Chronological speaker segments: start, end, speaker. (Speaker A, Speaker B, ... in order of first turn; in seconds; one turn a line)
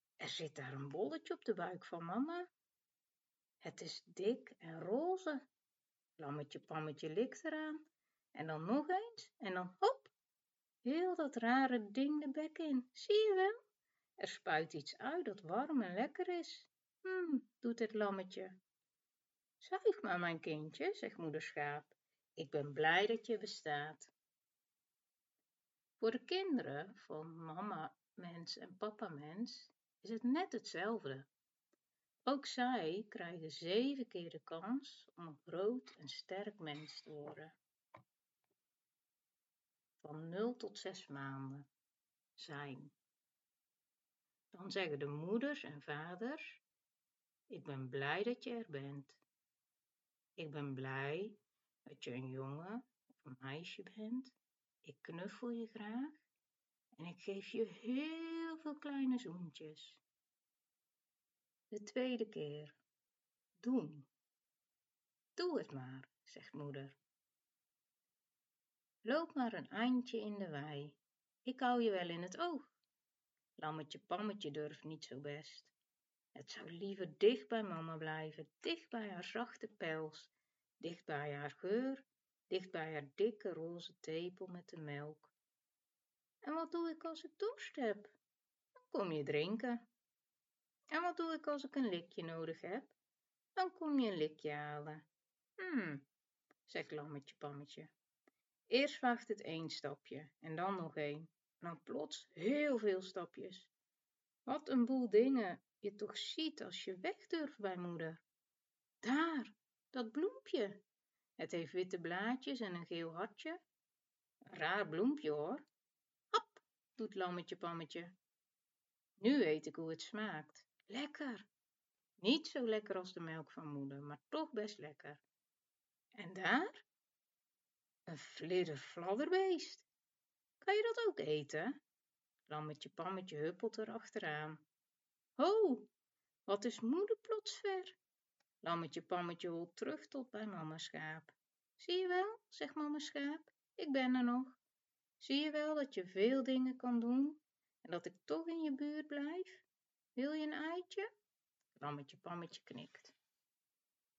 Speaker A: 0.2-2.5
Speaker A: 3.6-5.4
Speaker A: 6.2-10.1
Speaker A: 10.8-13.6
Speaker A: 14.2-18.6
Speaker A: 19.6-24.1
Speaker A: 26.0-31.3
Speaker A: 32.3-37.6
Speaker A: 40.0-41.7
Speaker A: 42.4-43.0
Speaker A: 44.5-46.6
Speaker A: 47.5-49.2
Speaker A: 50.4-56.2
Speaker A: 57.0-60.0
Speaker A: 61.7-62.8
Speaker A: 63.6-64.1
Speaker A: 65.4-67.0
Speaker A: 69.0-72.7
Speaker A: 73.6-75.7
Speaker A: 76.3-85.3
Speaker A: 86.4-88.1
Speaker A: 88.8-89.9
Speaker A: 90.9-92.9
Speaker A: 93.6-95.0
Speaker A: 95.6-96.1
Speaker A: 96.7-97.9
Speaker A: 98.7-103.7
Speaker A: 104.5-108.2
Speaker A: 109.0-110.8
Speaker A: 111.4-113.6
Speaker A: 114.5-115.7
Speaker A: 116.3-118.2
Speaker A: 119.2-121.5
Speaker A: 122.2-125.2
Speaker A: 126.1-126.8
Speaker A: 128.1-129.9
Speaker A: 130.6-131.8
Speaker A: 132.5-134.6
Speaker A: 135.4-135.9
Speaker A: 136.5-138.0
Speaker A: 138.6-144.6
Speaker A: 145.2-149.7
Speaker A: 150.2-151.1
Speaker A: 151.8-153.2